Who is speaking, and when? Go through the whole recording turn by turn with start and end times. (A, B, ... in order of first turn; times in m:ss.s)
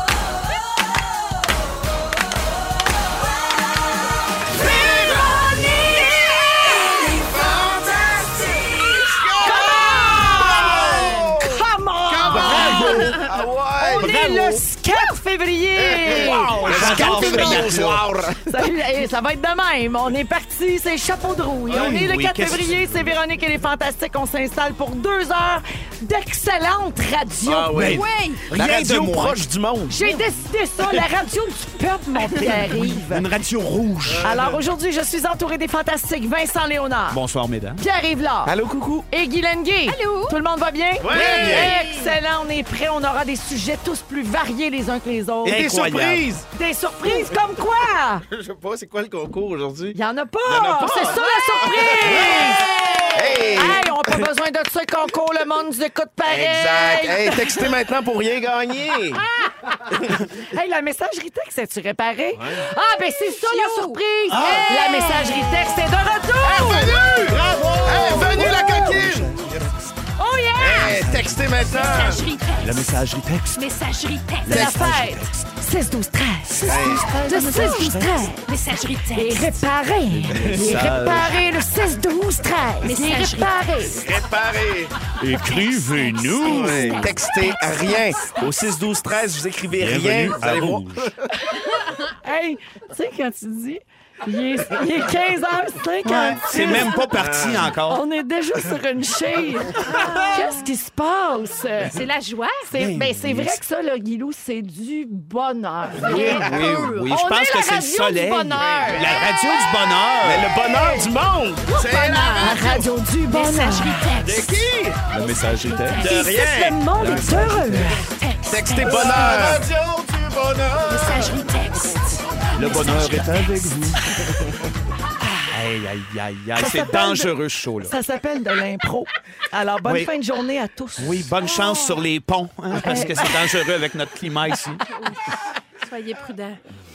0:04.5-0:07.5 A
0:04.6-0:05.4 B
0:07.2-0:14.6 B
0:08.1-0:13.3 A
0:12.3-0:13.2 C
0:12.7-0:13.2 D
0:13.8-0:17.8 A
0:13.9-0:14.6 C
0:15.8-0:18.7 B
0:16.0-0:18.1 C
0:18.4-0:27.9 A
0:21.7-0:23.0 C
0:27.4-0:30.0 B
0:27.7-0:29.4 C
0:27.9-0:28.4 D
0:29.8-0:33.2 A
0:32.3-0:34.3 C
0:34.0-0:34.6 B
0:34.2-0:37.2 A
0:37.1-0:37.8 C
0:37.8-0:38.5 A
0:38.4-0:39.1 B
0:39.1-0:45.7 A
0:39.9-0:40.4 D
0:41.0-0:41.7 B
0:41.1-0:42.2 D
0:45.4-0:46.3 C
0:45.4-0:46.4 B
0:46.5-0:48.2 A
0:48.2-0:54.3 B
0:49.9-0:57.7 A
0:53.5-0:53.8 D
0:56.2-0:59.2 B
0:59.1-1:09.1 A
0:59.9-1:00.2 B
1:02.3-1:02.6 B
1:03.4-1:05.8 D
1:04.3-1:04.7 C
1:06.4-1:09.6 B
1:07.2-1:09.9 C
1:10.2-1:11.0 A
1:10.6-1:12.2 B
1:10.7-1:11.4 C
1:11.7-1:12.9 D
1:12.6-1:13.6 C
1:13.5-1:14.7 D
1:14.4-1:15.4 C
1:14.4-1:18.5 A
1:16.5-1:18.3 C
1:16.6-1:17.0 B
1:17.2-1:19.6 D
1:19.0-1:24.0 A
1:20.1-1:21.4 C
1:20.3-1:20.8 B
1:22.8-1:23.7 D
1:23.9-1:24.9 B
1:25.2-1:27.0 C
1:25.4-1:28.1 D
1:26.4-1:31.3 B
1:26.5-1:28.0 A
1:29.7-1:31.1 C
1:32.2-1:37.1 A
1:36.0-1:38.0 C
1:37.1-1:37.7 B
1:37.8-1:42.0 A
1:39.8-1:40.7 D
1:41.8-1:42.7 D
1:42.6-1:49.2 A
1:42.7-1:43.6 C
1:45.9-1:47.1 D
1:46.0-1:50.5 C
1:48.6-1:49.0 B
1:48.6-1:49.1 D
1:50.2-1:52.8 B
1:51.6-1:54.6 D
1:52.4-1:54.1 A
1:54.2-1:55.0 B
1:55.1-1:56.0 C
1:55.2-1:56.3 D
1:55.9-1:58.1 A
1:56.0-1:57.4 B
1:56.9-1:58.0 C
1:58.0-1:59.5 D
1:58.5-2:01.4 B
1:58.8-1:59.4 A
1:59.1-1:59.6 C
2:00.9-2:03.7 D
2:02.5-2:04.2 C
2:05.5-2:07.9 C
2:06.6-2:11.4 A
2:09.8-2:10.1 C
2:11.0-2:14.8 C
2:11.4-2:12.0 D
2:12.8-2:13.6 A
2:14.9-2:16.6 D